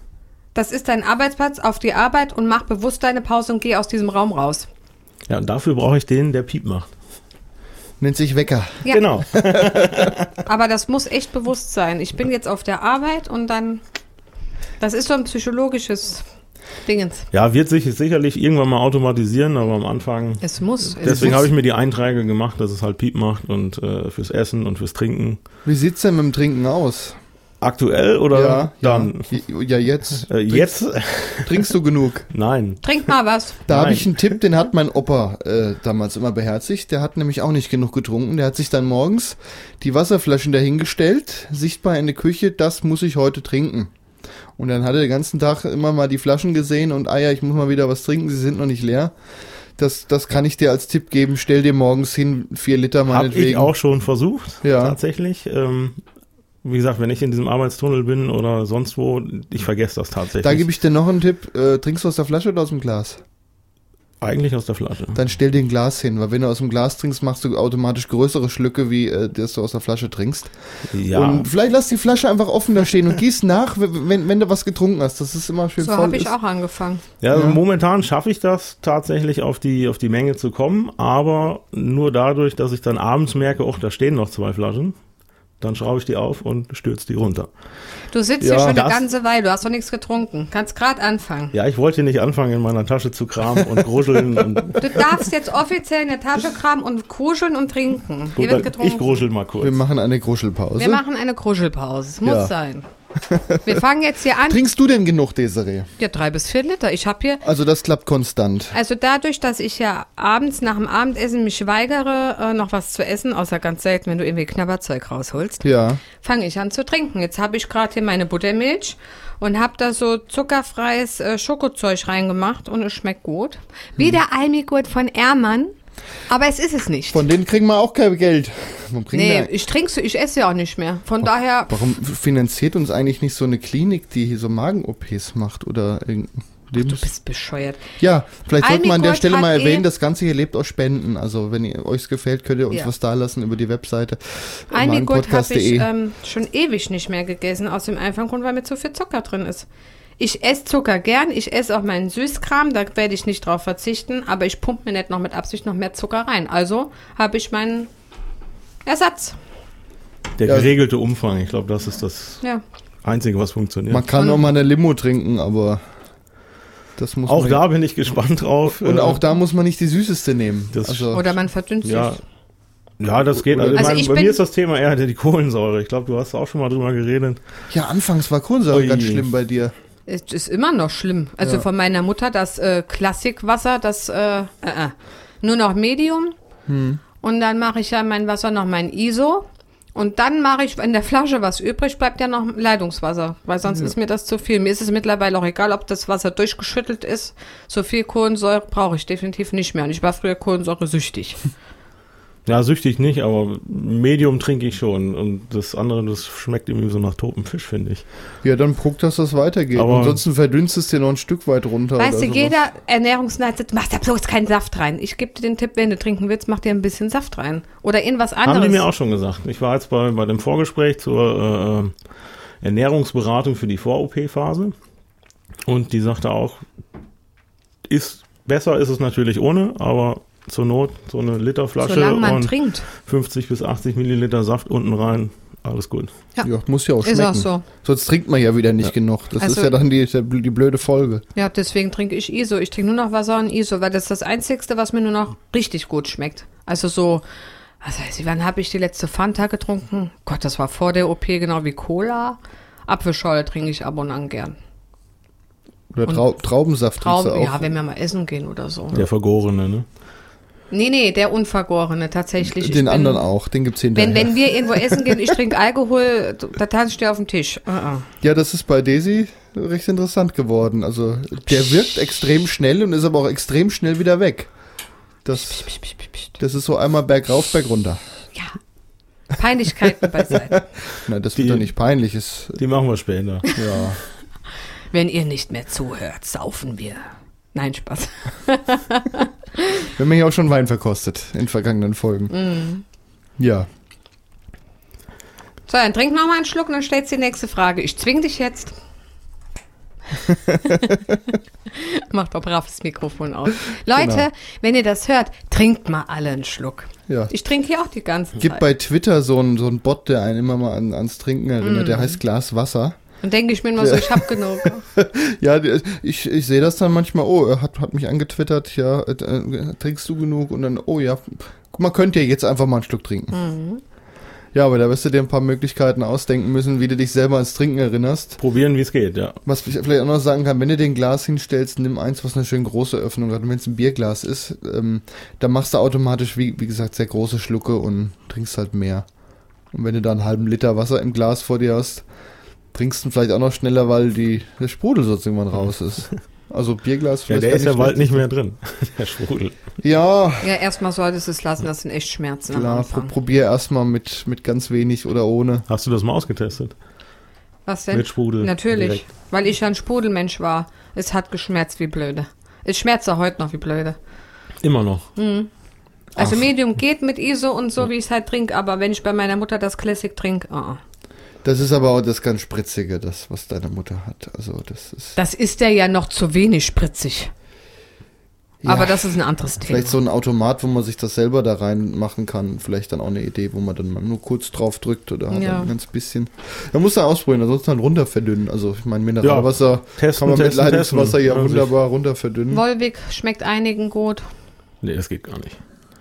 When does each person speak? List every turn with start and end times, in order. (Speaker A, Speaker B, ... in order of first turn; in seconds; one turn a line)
Speaker A: 0.5-4.7
Speaker B: 5.3-6.9
Speaker C: 8.0-10.1
Speaker B: 8.9-10.3
Speaker A: 10.4-13.8
Speaker A: 14.8-16.2
Speaker A: 16.9-17.3
Speaker B: 17.3-25.4
Speaker A: 20.4-21.5
Speaker C: 21.0-21.5
Speaker C: 25.6-27.2
Speaker B: 27.6-29.3
Speaker C: 28.3-30.8
Speaker B: 30.3-31.7
Speaker C: 31.4-32.3
Speaker B: 32.3-32.9
Speaker A: 32.8-33.6
Speaker B: 33.7-34.3
Speaker C: 33.7-43.9
Speaker C: 44.6-49.1
Speaker C: 49.8-53.7
Speaker B: 53.1-56.0
Speaker C: 54.6-55.0
Speaker B: 56.6-60.6
Speaker C: 60.4-63.2
Speaker B: 64.2-65.2
Speaker C: 65.1-70.5
Speaker B: 70.9-71.5
Speaker C: 71.0-76.3
Speaker A: 75.8-77.0
Speaker B: 77.2-85.0
Speaker C: 77.3-77.6
Speaker B: 85.6-87.5
Speaker A: 88.1-91.5
Speaker C: 88.4-88.8
Speaker B: 88.7-89.0
Speaker B: 91.5-95.1
Speaker A: 94.8-99.2
Speaker B: 98.3-99.8
Speaker C: 99.6-101.0
Speaker A: 100.8-102.9
Speaker C: 102.2-102.5
Speaker C: 103.2-103.8
Speaker A: 103.6-104.6
Speaker C: 104.4-105.9
Speaker A: 106.0-107.4
Speaker C: 107.4-108.7
Speaker A: 108.7-125.7
Speaker C: 115.6-116.0
Speaker A: 126.3-127.2
Speaker C: 127.1-129.5
Speaker A: 129.1-131.9
Speaker C: 131.2-137.1
Speaker A: 136.8-137.9
Speaker C: 138.0-145.9
Speaker A: 138.6-139.8
Speaker A: 144.7-149.7
Speaker A: 150.2-157.9
Speaker A: 158.8-159.4
Speaker B: 160.4-162.4
Speaker C: 160.4-160.7
Speaker B: 163.0-164.1
Speaker C: 163.9-165.8
Speaker A: 164.2-164.4
Speaker C: 167.0-167.6
Speaker B: 167.3-169.2
Speaker C: 168.8-171.3
Speaker B: 170.7-171.2
Speaker A: 171.1-172.2
Speaker B: 171.8-172.2
Speaker B: 173.0-177.4
Speaker C: 173.4-173.9
Speaker A: 173.7-174.4
Speaker C: 177.7-179.7
Speaker B: 178.7-179.3
Speaker A: 180.1-186.3
Speaker C: 186.7-187.0
Speaker A: 187.2-201.4
Speaker B: 202.4-208.0
Speaker C: 208.4-212.6
Speaker B: 209.7-210.2
Speaker A: 212.0-218.8
Speaker B: 218.4-221.9
Speaker B: 222.6-224.7
Speaker B: 225.7-226.6
Speaker B: 227.8-236.1
Speaker A: 231.8-232.9
Speaker C: 236.4-241.2
Speaker A: 237.0-237.6
Speaker A: 239.4-239.7
Speaker A: 241.3-247.2
Speaker A: 247.8-254.6
Speaker C: 255.9-257.7
Speaker A: 257.0-259.0
Speaker B: 258.9-259.9
Speaker A: 260.7-263.2
Speaker C: 262.4-265.4
Speaker A: 263.9-268.1
Speaker C: 268.2-274.5
Speaker C: 275.2-275.7
Speaker A: 275.3-276.3
Speaker C: 276.4-278.0
Speaker A: 279.3-280.6
Speaker C: 280.3-282.6
Speaker B: 281.4-281.7
Speaker B: 282.6-283.5
Speaker C: 283.6-284.0
Speaker A: 284.9-289.8
Speaker C: 289.9-292.4
Speaker A: 292.3-292.8
Speaker C: 293.4-293.7
Speaker A: 295.7-298.7
Speaker C: 300.3-301.2
Speaker A: 300.7-301.0
Speaker A: 301.7-308.6
Speaker C: 303.9-304.2
Speaker C: 308.4-313.0
Speaker A: 311.6-312.2
Speaker A: 313.2-314.8
Speaker C: 313.8-323.4
Speaker A: 323.3-323.8
Speaker C: 324.5-328.4
Speaker B: 328.4-329.4
Speaker C: 329.4-339.1
Speaker C: 339.7-342.1
Speaker C: 342.7-348.2
Speaker B: 347.3-349.6
Speaker C: 349.8-350.5
Speaker A: 350.4-353.1
Speaker C: 352.5-355.6
Speaker B: 355.7-356.7
Speaker A: 357.6-364.0
Speaker B: 357.9-359.0
Speaker B: 364.6-365.1
Speaker A: 365.1-365.5
Speaker A: 366.1-370.8
Speaker C: 371.4-375.1
Speaker A: 375.1-377.3
Speaker C: 378.6-392.6
Speaker A: 378.6-380.0
Speaker A: 385.3-385.7
Speaker B: 389.2-391.7
Speaker A: 392.5-394.2
Speaker B: 394.8-395.6